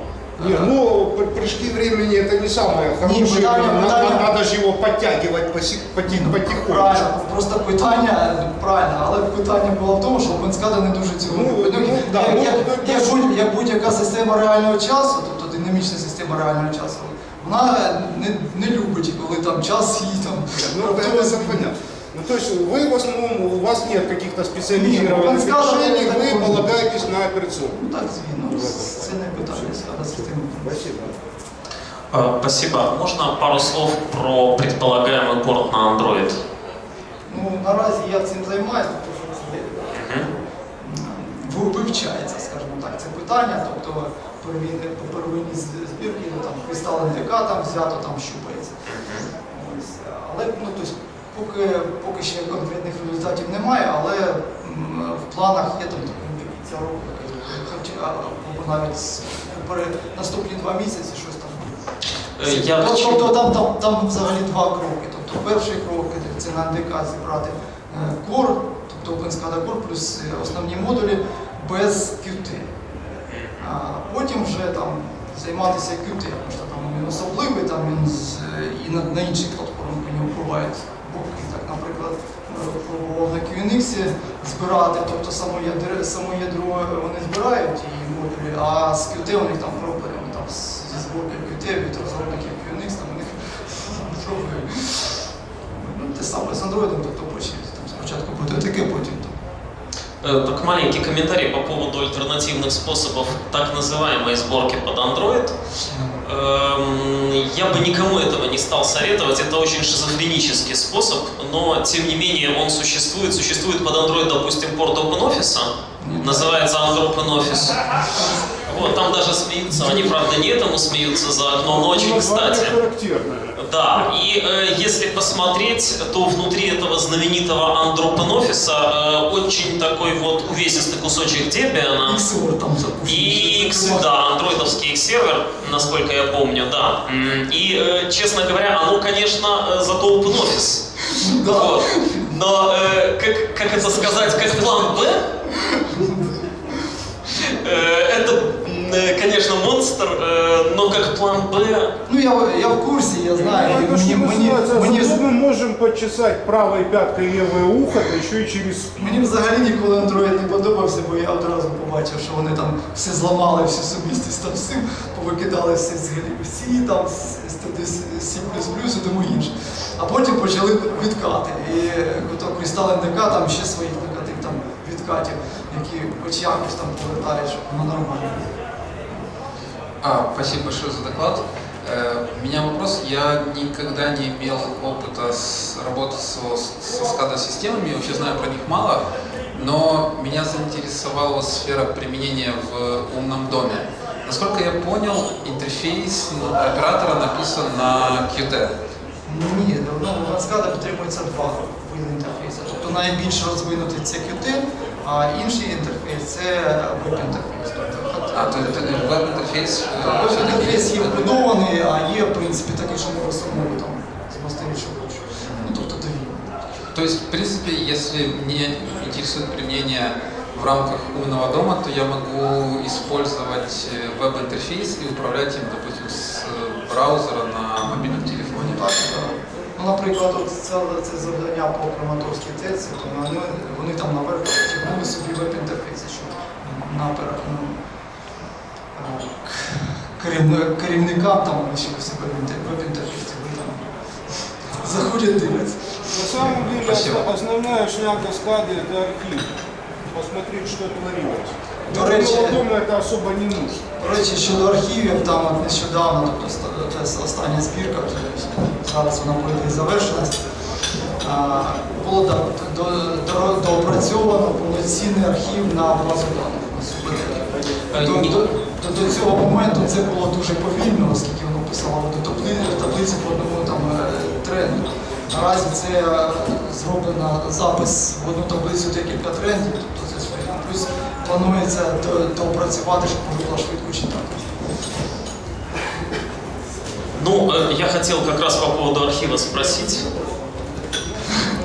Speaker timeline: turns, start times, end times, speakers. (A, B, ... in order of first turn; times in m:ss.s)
0:00.4-0:00.7 A
0:00.4-0:07.0 B
0:03.0-0:04.3 A
0:06.0-0:21.7 A
0:11.2-0:13.3 B
0:20.7-0:27.8 B
0:24.7-0:26.7 A
0:27.7-0:30.8 A
0:28.5-0:31.2 B
0:32.1-0:36.4 C
0:37.3-0:48.8 A
0:39.9-0:40.2 C
0:48.9-0:49.3 C
0:49.5-1:01.7 A
1:02.4-1:03.3 C
1:02.4-1:12.7 A
1:13.6-1:35.2 A
1:35.7-1:39.3 A
1:40.2-1:45.5 C
1:45.9-1:46.1 A
1:46.2-1:55.7 C
1:56.0-1:56.6 A
1:56.2-1:58.1 C
1:58.6-2:02.8 C
2:01.6-2:04.1 B
2:03.6-2:12.2 C
2:12.0-2:14.0 A
2:13.0-2:20.8 C
2:21.0-2:22.2 A
2:21.5-2:25.2 C
2:23.7-2:26.3 A
2:27.3-2:31.9 C
2:32.1-2:35.2 A
2:33.4-2:38.9 B
2:39.0-2:58.4 A
3:00.0-3:18.7 D
3:19.2-3:28.8 A
3:28.3-3:31.2 D
3:30.0-3:36.6 A
3:35.4-3:35.7 D
3:36.9-3:48.8 D
3:47.8-3:57.8 A
3:58.9-4:03.9 A
4:04.7-4:06.6 A
4:06.1-4:09.5 B
4:06.6-4:07.2 D
4:10.1-4:13.8 B
4:11.9-4:12.6 A
4:14.0-4:20.4 A
4:21.2-4:44.5 A
4:27.9-4:28.5 C
4:47.1-4:50.0 C